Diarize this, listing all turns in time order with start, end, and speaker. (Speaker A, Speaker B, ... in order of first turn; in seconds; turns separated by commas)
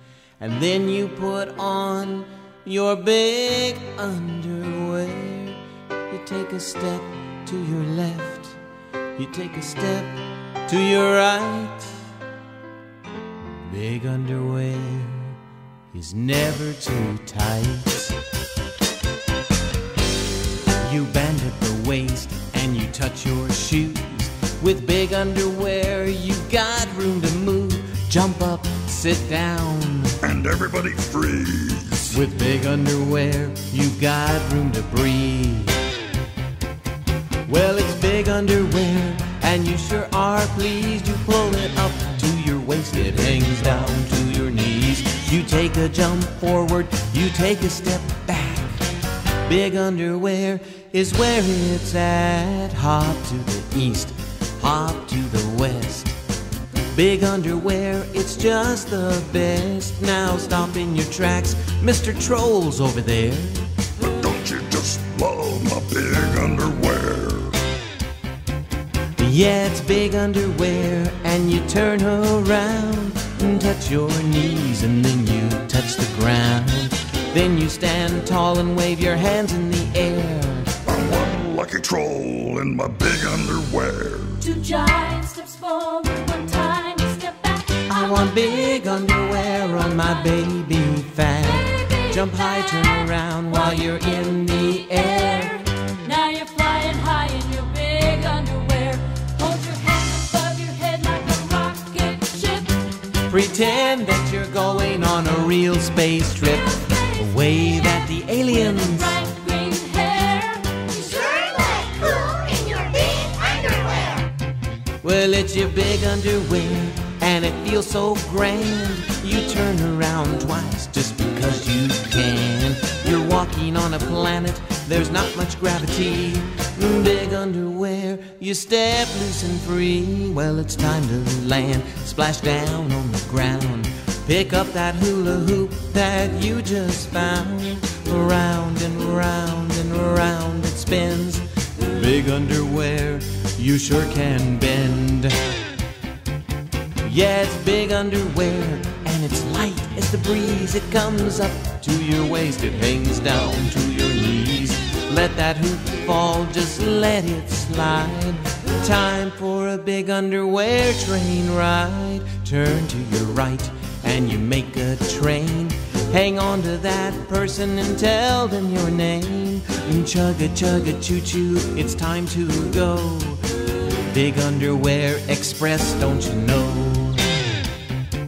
Speaker A: 0.4-8.6, Speaker A: 9.2-12.1, Speaker A: 13.5-15.4, Speaker A: 15.9-18.2, Speaker A: 20.8-30.2, Speaker B: 30.2-32.1, Speaker A: 32.1-35.8, Speaker A: 37.5-48.8, Speaker A: 49.4-56.2, Speaker A: 56.9-63.7, Speaker B: 64.0-67.6, Speaker A: 69.2-80.8, Speaker B: 80.9-84.5, Speaker C: 84.4-87.8, Speaker A: 87.8-95.7, Speaker C: 96.0-102.8, Speaker A: 103.2-109.2, Speaker C: 108.8-113.0, Speaker A: 115.0-145.4, Speaker A: 147.0-173.4, Speaker A: 174.0-177.3